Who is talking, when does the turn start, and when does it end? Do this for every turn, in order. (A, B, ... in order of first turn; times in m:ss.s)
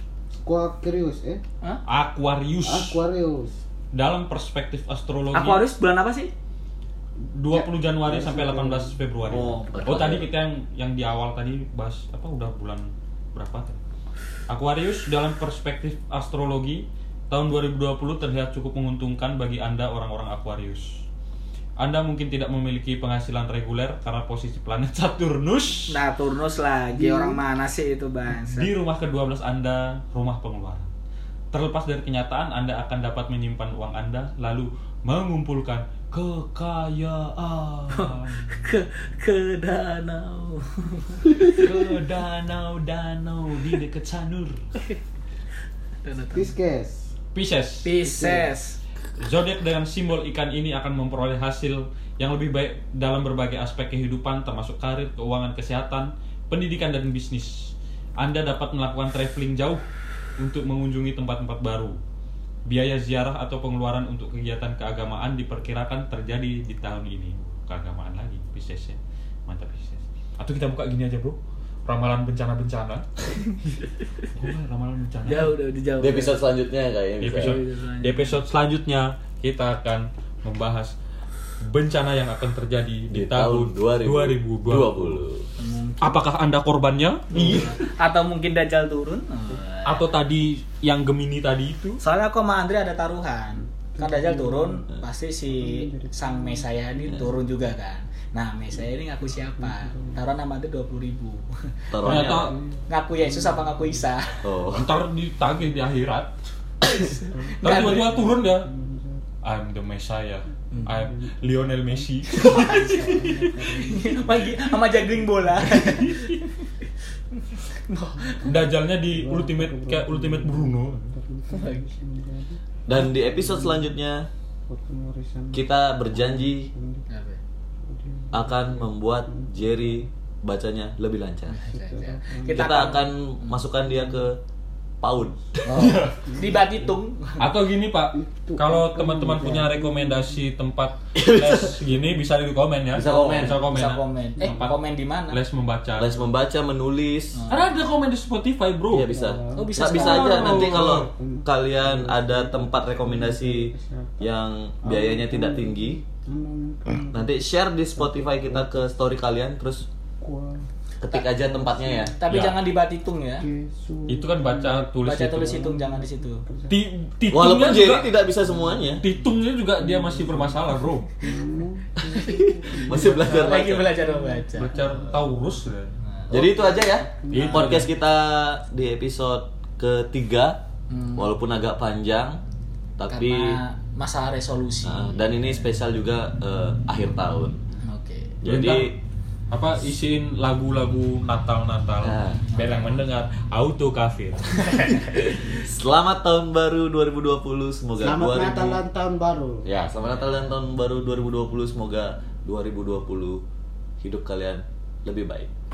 0:00.4-0:01.4 A
0:01.8-0:03.0 B
0:02.6-0:03.5 A
0:03.9-0:05.6 B
0:05.3-0:06.3 C
0:07.3-0:13.8 B
0:07.5-0:09.0 A
0:09.3-0:10.3 D
0:14.5-0:21.0 B
0:21.8-0:26.0 B
0:25.9-0:28.7 C
0:26.9-0:27.4 A
0:28.5-0:30.9 B
0:31.5-0:38.7 B
0:37.9-0:41.6 C
0:41.5-0:44.6 B
0:46.0-0:46.5 C
0:46.3-0:47.1 A
0:47.3-0:47.9 B
0:47.8-0:48.8 C
0:48.0-0:48.5 A
0:49.2-0:59.8 B
1:00.4-1:02.0 B
1:02.6-1:13.0 B
1:14.3-1:15.5 B
1:15.2-1:16.4 C
1:16.0-1:17.6 D
1:17.2-1:20.9 B
1:17.3-1:18.3 C
1:21.6-1:25.2 B
1:23.1-1:25.5 D
1:25.6-1:26.2 C
1:26.0-1:27.7 B
1:27.3-1:30.1 C
1:29.8-1:32.0 B
1:32.0-1:41.7 C
1:33.9-1:34.8 A
1:35.5-1:36.6 A
1:37.0-1:37.3 D
1:39.6-1:40.2 A
1:41.9-1:42.6 D
1:42.0-1:42.6 B
1:42.0-1:44.0 A
1:42.9-1:44.4 C
1:44.4-1:44.9 D
1:44.7-1:46.3 B
1:47.0-1:48.3 C
1:47.1-1:49.2 A
1:47.6-1:48.7 B
1:49.4-1:52.9 B
1:50.8-1:54.6 A
1:52.3-1:58.6 C
1:55.9-1:56.3 B
1:58.4-2:01.0 B
1:59.1-2:03.9 A
2:01.5-2:01.9 C
2:02.9-2:04.3 D
2:04.7-2:07.0 A
2:05.5-2:06.7 D
2:07.1-2:07.4 C
2:07.9-2:10.0 A
2:08.3-2:11.6 D
2:11.5-2:13.7 C
2:11.7-2:12.9 A
2:12.5-2:14.4 D
2:15.0-2:16.1 D
2:15.7-2:16.4 B
2:15.7-2:17.5 C
2:16.2-2:17.0 A
2:17.4-2:26.3 B
2:18.1-2:20.4 A
2:21.1-2:21.8 D
2:21.8-2:22.2 A
2:22.9-2:23.6 D
2:23.0-2:25.4 C
2:24.4-2:24.7 A
2:26.0-2:27.4 D
2:27.3-2:27.7 C
2:27.5-2:29.1 B
2:28.9-2:36.0 D
2:29.0-2:34.3 A
2:29.5-2:30.5 C
2:29.9-2:31.1 B
2:34.8-2:37.3 A
2:37.1-2:39.9 D
2:37.9-2:38.8 A
2:40.2-2:42.1 A
2:41.0-2:42.2 D
2:42.1-2:43.4 C
2:42.3-2:42.6 B
2:43.4-2:46.8 A
2:44.1-2:45.5 B
2:45.0-2:46.4 C
2:46.7-2:48.1 B
2:47.3-2:49.0 D
2:48.1-2:55.1 A
2:49.0-2:51.1 B
2:52.0-2:53.9 D
2:52.9-2:54.9 C
2:54.5-2:56.0 B
2:56.0-2:56.3 C
2:56.3-2:57.8 A
2:56.3-3:00.6 D
2:57.3-2:57.9 B
3:00.9-3:01.3 C
3:01.2-3:02.4 D
3:03.0-3:03.6 D
3:03.1-3:05.4 C
3:04.8-3:07.6 D
3:07.9-3:08.4 C
3:08.4-3:09.0 D
3:08.4-3:08.9 B
3:09.5-3:15.3 B
3:12.0-3:12.4 D
3:12.6-3:12.8 C
3:15.4-3:18.8 D
3:18.0-3:19.7 A
3:19.6-3:23.4 D
3:24.0-3:25.5 D